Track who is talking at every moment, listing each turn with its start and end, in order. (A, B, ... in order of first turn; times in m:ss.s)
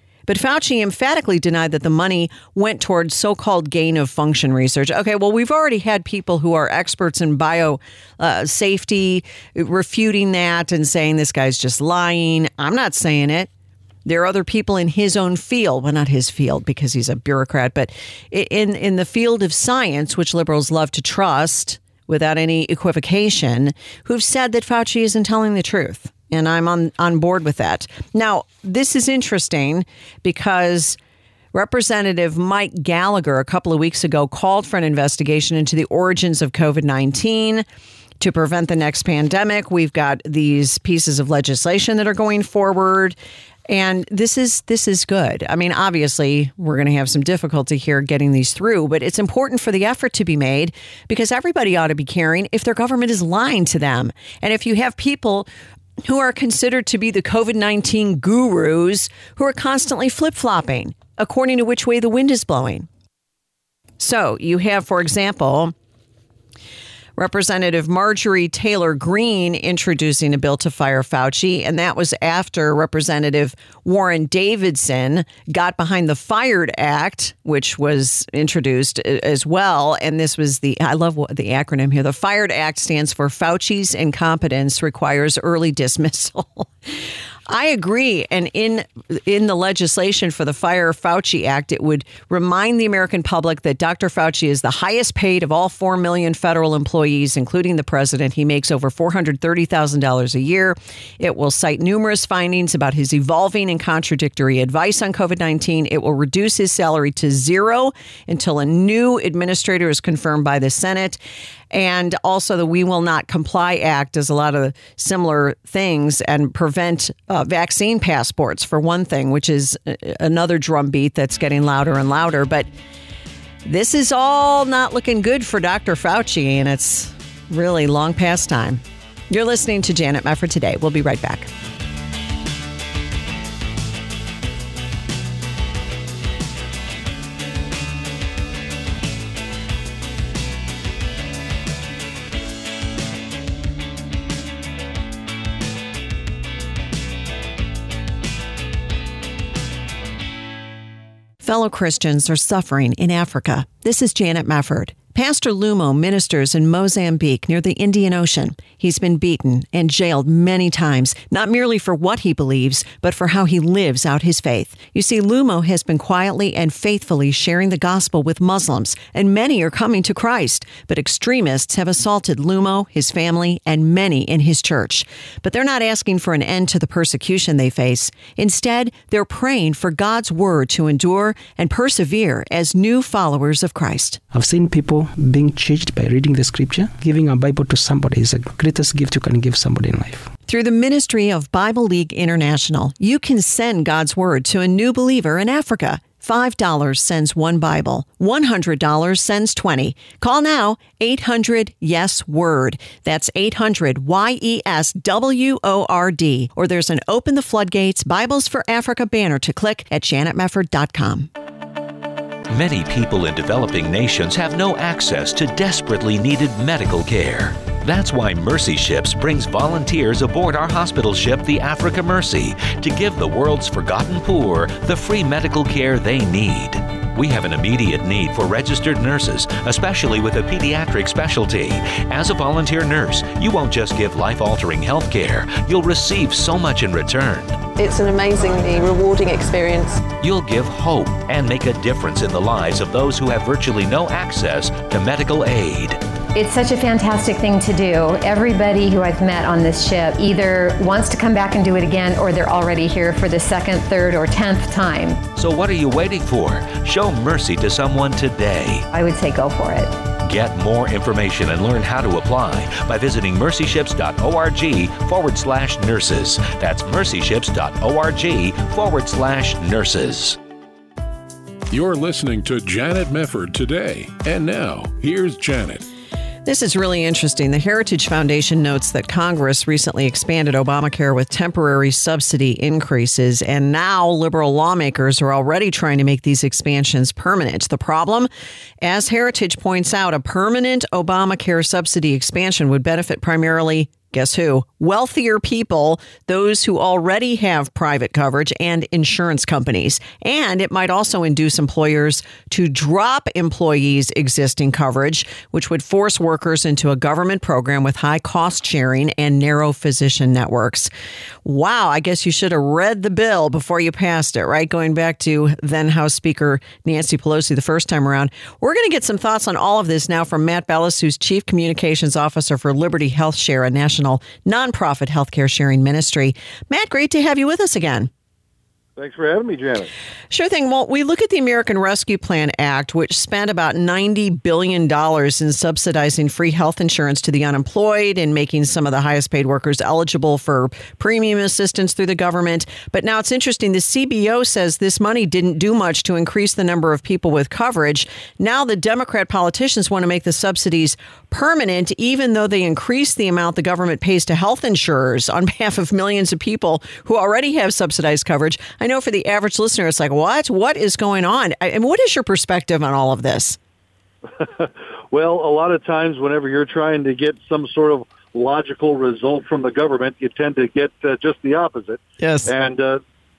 0:00.3-0:13.5 A
0:14.0-0:31.0 A
0:31.5-0:37.6 A
0:38.2-0:43.2 A
0:43.7-0:55.5 A
0:56.0-1:02.9 A
1:04.0-1:05.7 A
1:07.2-1:26.7 A
1:27.5-1:51.2 A
1:51.7-2:02.7 A
2:03.6-2:11.5 A
2:31.4-3:04.2 A
3:04.3-3:10.3 B
3:10.5-3:31.3 A
3:32.5-3:57.7 C
3:57.7-4:00.0 D
4:00.2-4:06.0 C
4:06.3-4:15.2 E
4:15.3-4:18.9 C
4:18.9-4:20.0 E
4:20.2-4:30.4 C
4:31.7-4:35.8 F
4:36.4-4:48.3 A
4:48.8-5:10.9 A
5:11.4-5:28.1 A
5:29.0-5:29.9 G
5:30.3-6:03.6 A
6:04.4-6:13.0 G
6:12.2-6:12.5 A